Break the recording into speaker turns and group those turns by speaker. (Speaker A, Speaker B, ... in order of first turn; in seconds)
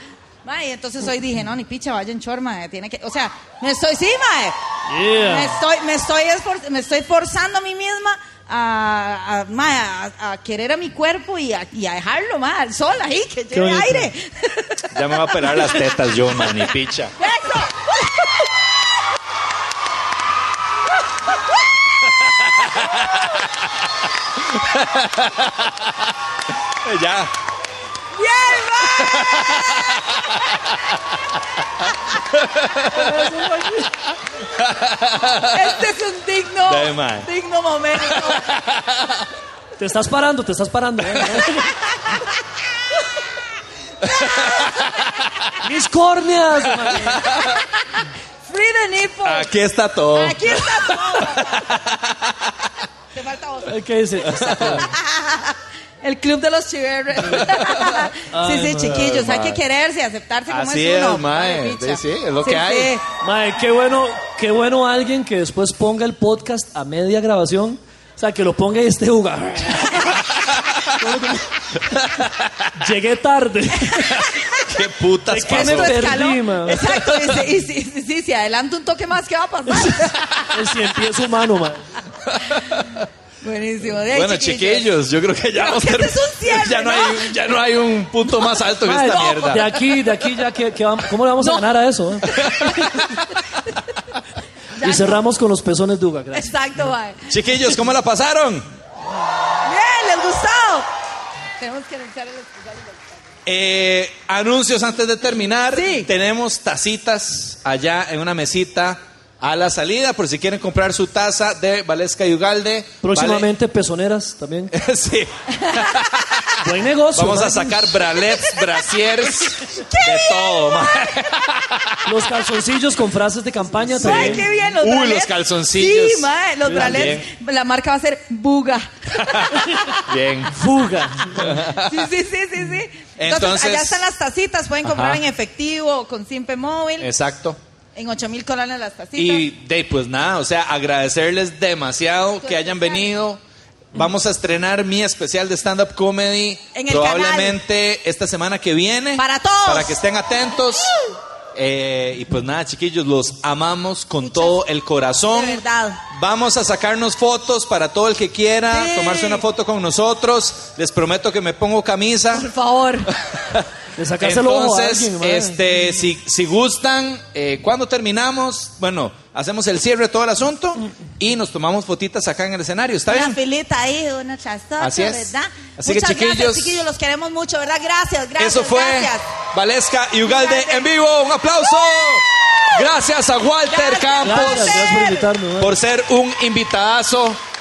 Speaker A: 0.4-4.6, 5.1-14.8, 15.4-15.8, 17.2-18.4, 28.1-29.8, 35.5-38.5, 44.1-45.3, 47.2-49.5, 50.1-51.8, 53.1-63.1, 73.8-74.7, 75.5-80.9, 83.4-84.9, 85.6-87.4, 89.1-90.2, 91.4-91.7, 92.2-93.4, 94.8-95.2, 96.3-97.3, 99.6-100.9, 101.6-103.0, 105.7-106.1, 115.5-116.1, 118.2-121.4, 124.0-130.1, 131.6-137.1, 137.9-139.5, 142.4-143.1, 146.7-147.6, 149.2-150.0, 154.2-154.6, 155.3-156.0, 158.7-159.4, 162.3-163.1, 173.1-179.3, 180.2-180.9, 183.7-185.2
Speaker B: 4.9-5.6, 13.5-14.1, 32.9-34.0, 39.8-41.9, 45.6-47.3, 53.7-55.0, 58.3-59.1, 63.2-70.2, 70.9-72.0, 72.7-74.3, 75.3-77.4, 79.7-81.9, 88.8-93.2, 94.8-96.5, 113.0-114.7, 116.6-118.0, 122.0-124.4, 126.7-127.2, 130.5-131.6, 164.0-165.6, 184.2-185.8
Speaker C: 14.9-17.2, 22.2-23.5, 24.3-26.1, 26.7-27.3, 29.0-31.0, 31.8-33.4, 34.2-35.8, 36.7-37.3, 38.1-39.3, 44.0-45.1, 46.9-47.6, 49.2-52.7, 54.2-54.8, 57.3-58.1, 58.9-59.6, 60.5-62.9, 70.3-70.8, 71.9-72.7, 74.6-76.1, 82.3-83.0, 84.1-89.7, 92.5-92.7, 97.3-98.7, 103.5-113.5, 114.7-122.1, 124.0-127.3, 129.2-130.5, 131.3-132.1, 133.2-134.0, 134.8-135.2, 137.0-137.6, 139.2-143.4, 143.9-150.9, 151.6-162.5, 163.1-163.7, 164.2-173.4, 174.8-176.8, 178.4-184.8, 185.6-187.4